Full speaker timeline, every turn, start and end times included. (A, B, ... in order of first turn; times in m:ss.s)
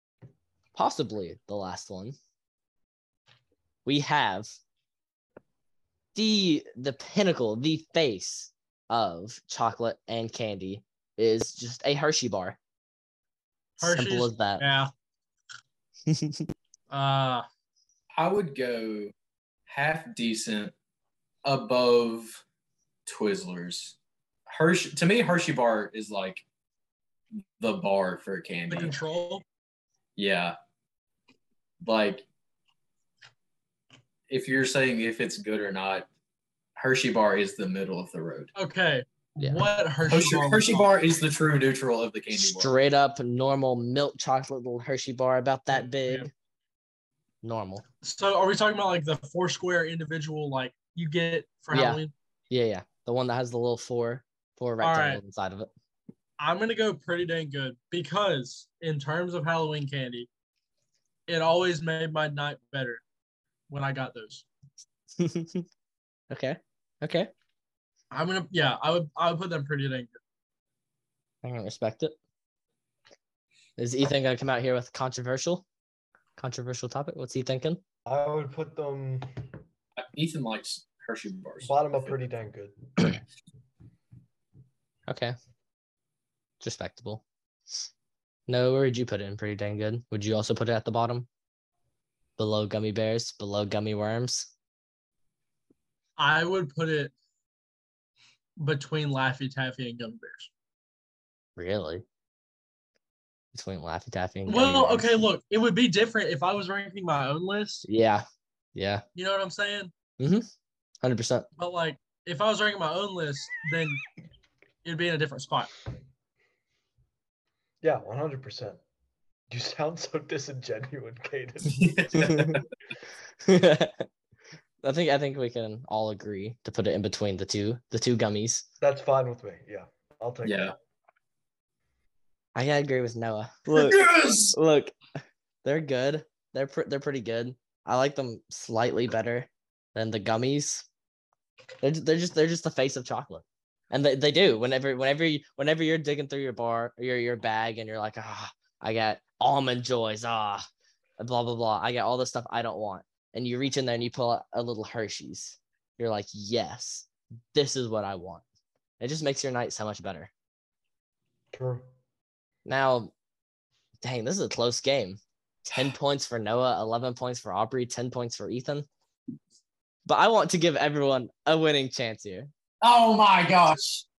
0:00.7-0:02.2 A
0:03.8-0:04.5 A
0:06.1-0:12.6 A
0:13.8-0:14.6 A
0:13.8-0:14.9 B
0:16.1-0:16.5 A
0:16.9-0:17.4 B
0:18.1-0:19.1 C
0:19.7-0:20.7 C
0:21.4-0:22.4 C
0:23.0-0:24.0 C
0:24.5-0:26.4 C
0:27.6-0:29.0 C
0:28.7-0:29.4 B
0:30.2-0:30.6 C
0:31.8-0:32.2 C
0:34.3-0:36.1 C
0:36.8-0:38.5 C
0:38.6-0:40.9 B
0:39.4-0:39.7 A
0:40.1-0:42.7 C
0:42.3-0:46.3 A
0:45.7-0:46.3 B
0:47.4-0:47.8 A
0:48.0-0:52.1 B
0:51.7-0:55.7 A
0:54.8-0:55.2 B
0:56.4-1:00.3 B
1:01.3-1:03.0 B
1:03.7-1:04.4 B
1:05.2-1:05.7 A
1:06.3-1:07.3 A
1:08.1-1:10.2 B
1:11.4-1:12.1 A
1:13.8-1:15.6 A
1:16.4-1:17.8 A
1:18.0-1:19.5 D
1:20.0-1:22.1 C
1:21.6-1:23.1 D
1:25.1-1:25.3 A
1:26.6-1:27.2 A
1:28.5-1:31.3 A
1:32.4-1:34.5 A
1:36.2-1:37.1 B
1:38.6-1:40.5 B
1:41.6-1:42.0 A
1:43.5-1:45.2 A
1:44.5-1:47.8 B
1:47.8-1:49.0 A
1:49.1-1:49.9 B
1:50.2-1:50.5 A
1:51.0-1:51.5 A
1:51.6-1:54.0 B
1:54.8-1:55.7 B
1:57.8-1:58.8 D
1:59.5-2:02.4 D
2:01.7-2:02.6 C
2:02.3-2:02.6 A
2:03.4-2:04.1 A
2:04.8-2:08.6 A
2:08.8-2:10.7 D
2:10.4-2:10.7 C
2:12.5-2:14.0 A
2:13.7-2:14.6 C
2:14.5-2:15.0 A
2:15.6-2:20.8 A
2:21.8-2:30.6 A
2:31.2-2:38.4 A
2:39.0-2:40.3 A
2:41.5-2:41.9 D
2:42.6-2:43.1 A
2:44.0-2:48.9 A
2:50.0-2:52.5 A
2:52.8-2:54.0 C